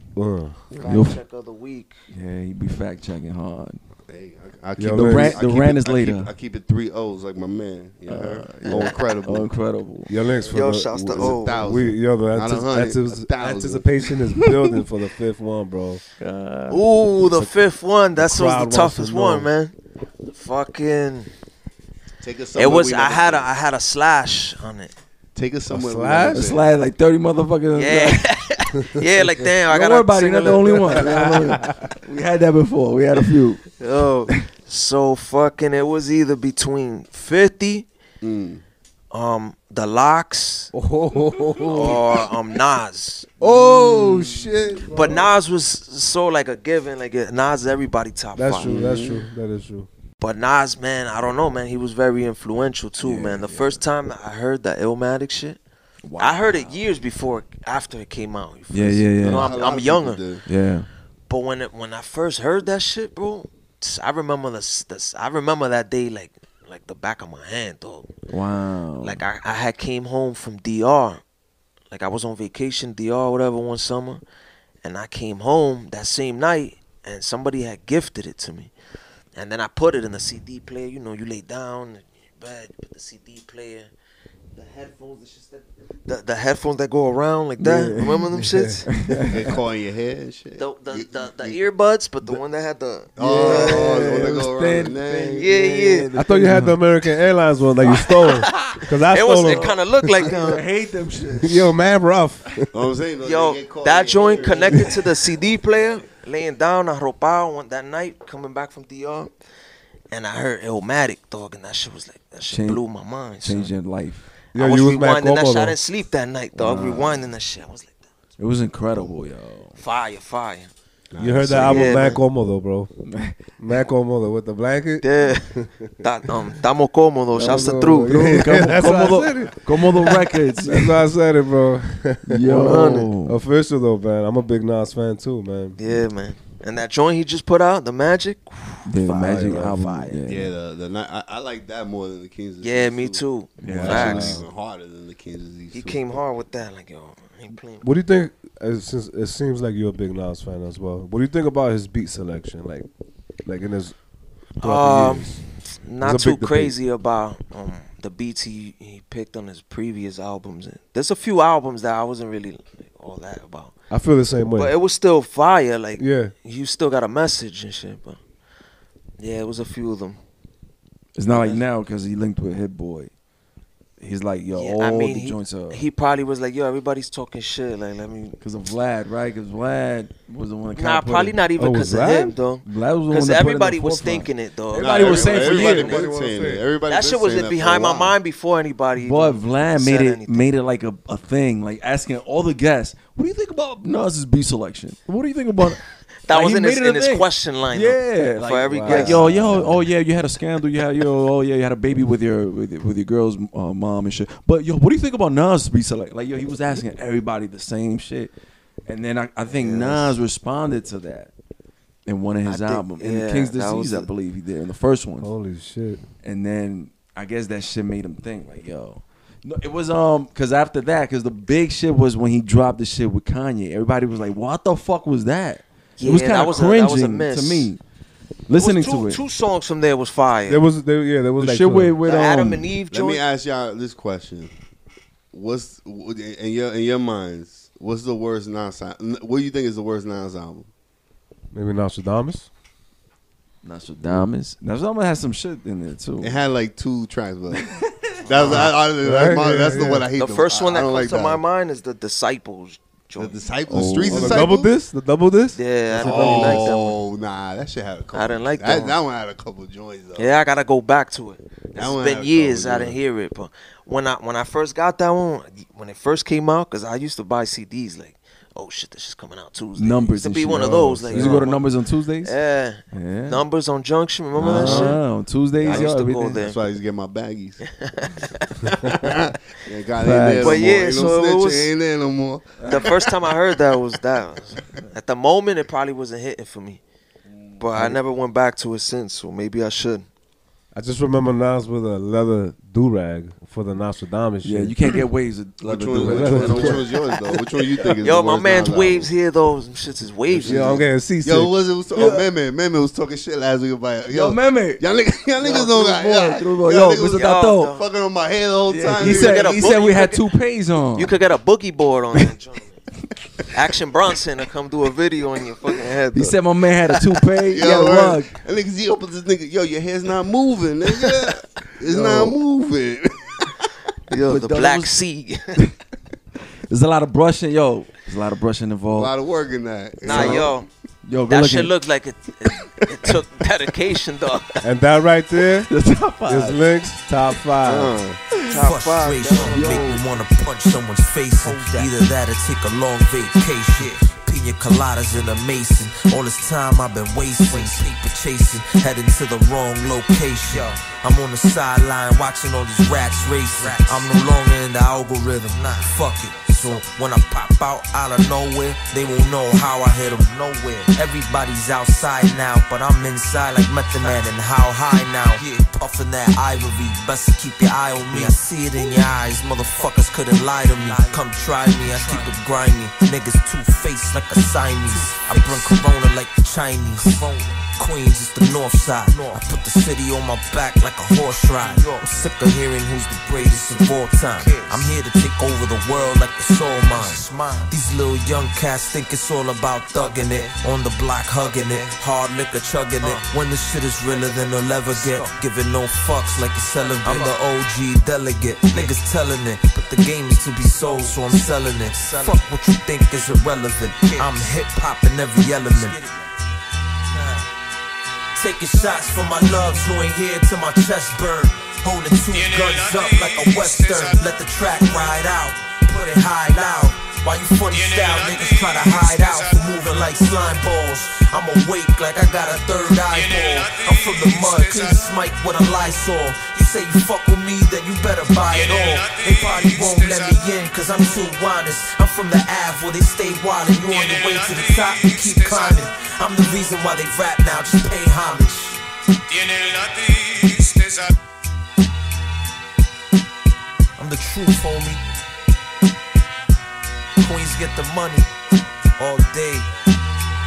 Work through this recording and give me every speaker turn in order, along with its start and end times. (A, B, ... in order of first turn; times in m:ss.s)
0:00.2-0:00.6 A
0:00.7-0:02.0 B
0:00.8-0:01.2 C
0:02.1-0:03.8 C
0:04.1-0:09.5 D
0:04.8-0:05.4 A
0:04.9-0:06.3 C
0:08.1-0:10.1 C
0:08.6-0:09.0 B
0:10.1-0:16.0 A
0:10.5-0:11.6 B
0:11.1-0:14.0 D
0:16.2-0:16.8 C
0:16.7-0:19.8 B
0:18.1-0:19.5 A
0:20.3-0:21.3 B
0:22.2-0:23.5 D
0:22.5-0:24.9 B
0:25.3-0:26.7 D
0:25.7-0:26.5 A
0:26.3-0:28.2 C
0:27.7-0:31.1 B
0:29.7-0:33.7 C
0:30.9-0:31.9 A
0:33.8-0:37.9 B
0:38.2-0:38.6 D
0:39.1-0:40.7 B
0:40.7-0:42.2 A
0:41.7-0:43.3 B
0:43.4-0:45.2 D
0:43.4-0:44.4 A
0:44.9-0:48.7 B
0:48.4-0:49.9 A
0:48.6-0:49.3 D
0:50.2-0:55.6 B
0:53.0-0:53.8 C
0:56.0-0:56.8 C
0:56.2-1:00.2 B
0:58.7-0:59.5 C
0:59.2-1:00.4 D
1:00.4-1:00.9 C
1:01.3-1:08.1 B
1:08.3-1:09.2 C
1:09.0-1:11.2 B
1:11.9-1:14.2 B
1:14.8-1:18.7 B
1:19.3-1:23.9 B
1:24.5-1:28.9 B
1:27.6-1:28.3 C
1:28.4-1:28.9 A
1:28.9-1:29.4 C
1:29.2-1:31.6 D
1:30.6-1:34.0 B
1:33.2-1:35.5 D
1:33.2-1:36.8 C
1:35.4-1:36.1 B
1:36.1-1:40.6 A
1:37.8-1:38.7 C
1:37.9-1:40.6 B
1:39.4-1:41.7 C
1:41.4-1:42.7 A
1:42.7-1:45.0 D
1:43.2-1:49.3 B
1:50.1-1:53.7 B
1:52.5-1:52.8 C
1:53.4-1:54.3 C
1:54.5-1:55.8 A
1:54.6-1:58.0 B
1:56.6-1:57.3 C
1:58.4-1:59.8 C
1:59.8-2:00.7 B
2:01.1-2:02.2 D
2:01.2-2:02.9 A
2:01.6-2:02.2 B
2:03.6-2:05.8 A
2:05.0-2:08.2 B
2:07.4-2:11.0 C
2:07.4-2:15.8 A
2:12.2-2:13.4 C
2:12.6-2:13.1 B
2:15.8-2:20.2 B
2:18.9-2:20.5 C
2:19.1-2:20.0 A
2:20.2-2:26.0 D
2:22.6-2:24.4 B
2:23.6-2:24.4 C
2:25.7-2:27.8 B
2:27.8-2:32.9 A
2:33.4-2:34.0 A
2:34.6-2:35.4 A
2:34.6-2:35.3 B
2:35.8-2:43.7 B
2:36.0-2:36.7 A
2:43.9-2:44.7 A
2:44.6-2:48.2 B
2:46.0-2:46.3 A
2:49.2-2:50.2 B
2:51.1-2:53.1 C
2:51.3-2:51.6 B
2:54.0-2:55.8 C
2:54.5-2:58.4 B
2:58.4-3:01.9 C
3:00.8-3:05.8 B
3:01.6-3:02.3 A
3:02.6-3:06.0 C
3:04.7-3:08.2 D
3:05.4-3:06.6 A
3:06.9-3:10.5 B
3:09.0-3:28.3 C
3:16.3-3:19.7 B
3:18.8-3:19.7 A
3:28.8-3:31.3 C
3:29.5-3:30.2 B
3:32.0-3:35.3 C
3:32.4-3:34.1 B
3:35.2-3:36.0 A
3:36.2-3:47.8 C
3:46.0-3:47.7 B
3:48.5-3:49.2 C
3:48.6-3:50.6 B
3:50.5-3:51.9 A
3:51.4-3:52.7 C
3:52.0-3:53.2 B
3:52.9-3:54.5 D
3:55.3-4:00.7 D
4:01.5-4:02.5 A
4:03.6-4:06.4 C
4:06.2-4:11.4 D
4:07.5-4:08.2 C
4:08.3-4:08.7 B
4:08.5-4:10.1 A
4:10.2-4:13.4 B
4:13.2-4:14.7 D
4:13.7-4:16.7 A
4:15.5-4:17.0 B
4:16.0-4:20.3 D
4:18.1-4:19.0 B
4:20.2-4:31.6 B
4:21.7-4:23.0 D
4:29.8-4:32.3 C
4:31.1-4:31.5 A
4:32.2-4:35.0 B
4:32.9-4:33.4 C
4:34.4-4:35.0 D
4:34.4-4:36.4 C
4:35.6-4:37.6 D
4:35.6-4:36.6 B
4:37.7-4:38.2 B
4:38.4-4:43.1 D
4:40.0-4:40.7 C
4:40.4-4:41.7 B
4:42.6-4:42.8 C
4:42.6-4:46.8 B
4:47.3-4:48.0 C
4:47.6-4:50.0 B
4:50.7-4:54.8 A
4:54.4-4:56.9 C
4:55.6-4:59.1 D
4:56.0-4:57.0 A
4:58.0-5:00.8 B
5:00.3-5:09.8 D
5:00.4-5:01.6 A
5:01.9-5:02.3 C
5:04.1-5:07.7 C
5:07.2-5:07.8 B
5:08.7-5:11.2 C
5:09.0-5:10.2 B
5:10.9-5:12.8 B
5:13.5-5:16.4 B
5:16.1-5:18.4 C
5:17.5-5:23.7 D
5:21.9-5:22.3 C
5:24.1-5:25.6 B
5:24.2-5:25.0 C
5:26.7-5:29.1 C
5:28.9-5:30.6 D
5:30.0-5:30.7 B
5:30.1-5:30.4 C
5:31.0-5:31.7 C
5:31.3-5:34.6 B
5:34.6-5:35.7 A
5:35.7-5:36.6 C
5:36.2-5:38.0 A
5:37.6-5:38.2 D
5:38.5-5:39.8 B
5:38.5-6:46.0 E
5:39.3-5:40.0 C
5:41.4-5:41.9 B
6:10.9-6:11.1 B
6:37.0-6:37.3 B
6:41.8-6:42.4 B
6:47.1-6:47.4 B
6:48.3-7:18.8 E
7:19.4-7:20.9 E
7:24.0-7:25.0 E
7:27.2-7:28.3 E
7:29.0-7:29.7 E